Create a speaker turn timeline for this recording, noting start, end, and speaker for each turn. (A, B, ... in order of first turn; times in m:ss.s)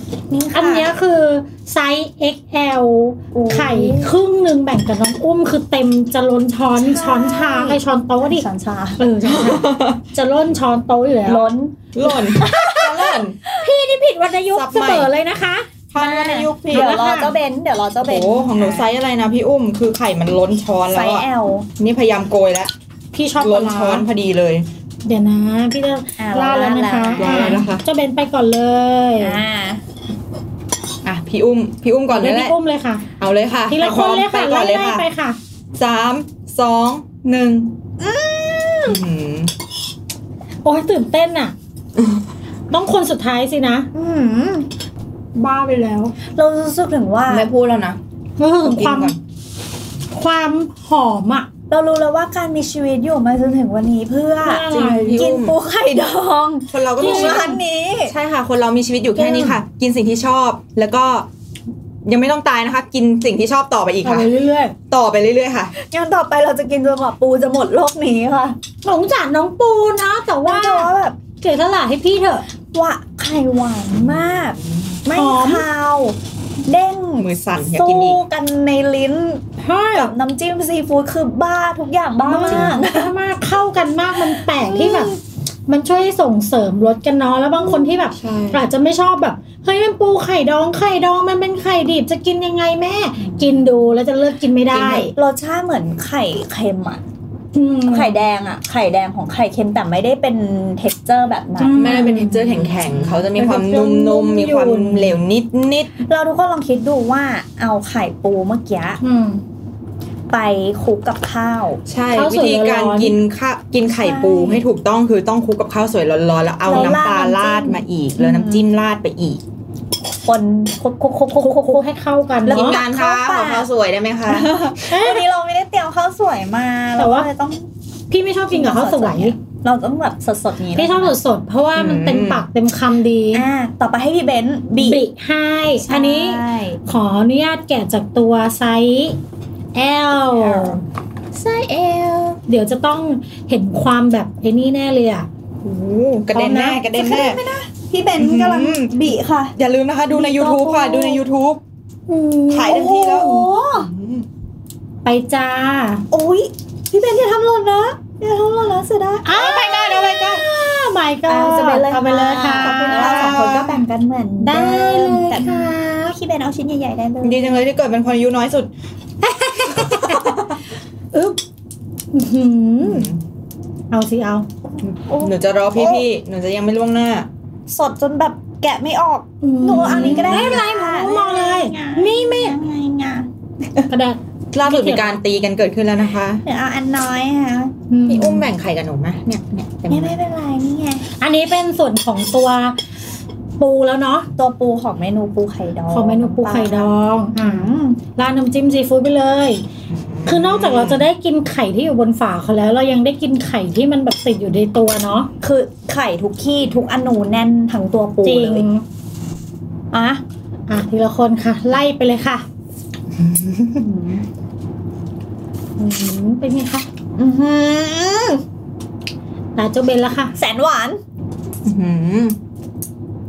0:00.3-0:00.9 A
0:00.5-0:08.5 B
0:03.3-0:04.1 A
0:06.8-0:09.0 A
0:09.0-0:11.5 B
0:09.2-0:10.0 C
0:11.2-0:13.6 A
0:11.9-0:13.4 C
0:13.6-0:15.7 B
0:14.5-0:15.1 C
0:15.9-0:17.1 C
0:16.0-0:18.9 A
0:16.7-0:17.3 B
0:18.0-0:22.7 C
0:20.9-0:21.7 A
0:23.1-0:24.1 B
0:23.4-0:24.7 C
0:25.0-0:29.4 B
0:26.2-0:27.6 A
0:27.2-0:27.8 C
0:29.2-0:29.8 A
0:31.0-0:32.6 C
0:32.1-0:33.1 B
0:33.2-0:35.1 C
0:33.7-0:35.4 B
0:35.8-0:37.8 C
0:38.0-0:39.0 A
0:38.8-0:39.5 C
0:40.6-0:41.6 B
0:42.7-0:43.9 B
0:43.9-0:44.7 A
0:45.4-0:46.2 B
0:46.3-0:47.5 A
0:47.3-0:48.0 C
0:48.4-0:49.2 B
0:48.6-0:49.2 C
0:50.1-0:51.5 B
0:51.7-0:58.1 A
0:54.4-0:55.2 B
0:54.7-0:55.6 C
0:56.7-1:01.3 C
0:57.0-0:57.6 B
0:59.2-0:59.6 B
1:02.0-1:04.3 C
1:04.0-1:04.7 B
1:04.9-1:05.7 C
1:05.8-1:08.6 A
1:08.8-1:12.4 B
1:10.4-1:11.2 A
1:12.7-1:23.1 A
1:14.0-1:14.9 C
1:15.2-1:15.7 B
1:17.2-1:18.2 C
1:19.6-1:20.1 B
1:22.3-1:25.2 B
1:22.5-1:22.8 C
1:24.6-1:25.1 A
1:25.7-1:35.1 B
1:27.9-1:28.6 C
1:33.3-1:33.7 A
1:34.7-1:35.1 C
1:35.1-1:37.0 A
1:37.5-1:38.2 B
1:37.9-1:42.3 A
1:41.6-1:42.7 B
1:41.7-1:45.9 C
1:43.3-1:45.2 B
1:46.1-1:49.0 A
1:49.0-1:49.4 B
1:50.3-1:51.8 A
1:51.9-1:59.4 C
1:52.1-1:53.2 B
1:53.9-1:54.6 A
1:56.7-1:58.6 A
2:00.2-2:01.9 A
2:01.4-2:02.8 B
2:02.4-2:03.7 A
2:02.5-2:04.7 C
2:04.3-2:07.7 A
2:04.9-2:05.2 B
2:07.0-2:07.3 B
2:08.1-2:09.4 B
2:08.5-2:11.2 A
2:10.8-2:13.4 B
2:11.8-2:12.4 C
2:13.3-2:15.0 A
2:14.8-2:19.2 B
2:15.9-2:16.8 A
2:19.8-2:20.8 B
2:20.4-2:20.8 A
2:21.4-2:22.4 C
2:22.5-2:25.3 B
2:25.6-2:27.4 C
2:26.4-2:26.8 B
2:26.5-2:29.5 A
2:28.2-2:29.0 C
2:29.6-2:31.6 C
2:30.1-2:31.2 A
2:32.1-2:32.9 B
2:32.5-2:34.3 C
2:32.6-2:33.9 A
2:35.0-2:36.0 B
2:36.1-2:40.4 A
2:39.2-2:43.5 B
2:39.5-2:40.4 C
2:41.3-2:47.5 A
2:42.6-2:43.8 C
2:44.4-2:46.2 B
2:47.2-2:48.7 C
2:49.2-2:50.4 B
2:49.7-2:50.6 C
2:51.1-2:51.4 B
2:52.1-2:53.1 B
2:52.8-2:53.2 C
2:53.9-2:54.5 B
2:54.8-2:57.3 C
2:55.1-2:56.0 A
2:57.7-3:03.9 A
2:59.4-3:02.6 B
2:59.7-3:00.6 C
3:03.9-3:05.2 B
3:04.5-3:06.4 C
3:06.4-3:07.7 A
3:07.9-3:08.5 B
3:08.1-3:10.2 C
3:09.9-3:11.0 A
3:11.2-3:12.8 B
3:13.6-3:14.3 B
3:14.4-3:18.0 A
3:15.9-3:19.6 B
3:19.9-3:21.0 C
3:20.3-3:25.3 B
3:25.4-3:28.7 A
3:28.2-3:28.8 B
3:29.9-3:30.2 A
3:30.7-3:32.4 B
3:33.2-3:33.8 C
3:33.8-3:34.2 A
3:35.8-3:36.9 B
3:37.2-3:38.4 A
3:39.6-3:40.3 B
3:40.4-3:41.0 A
3:41.6-3:42.4 C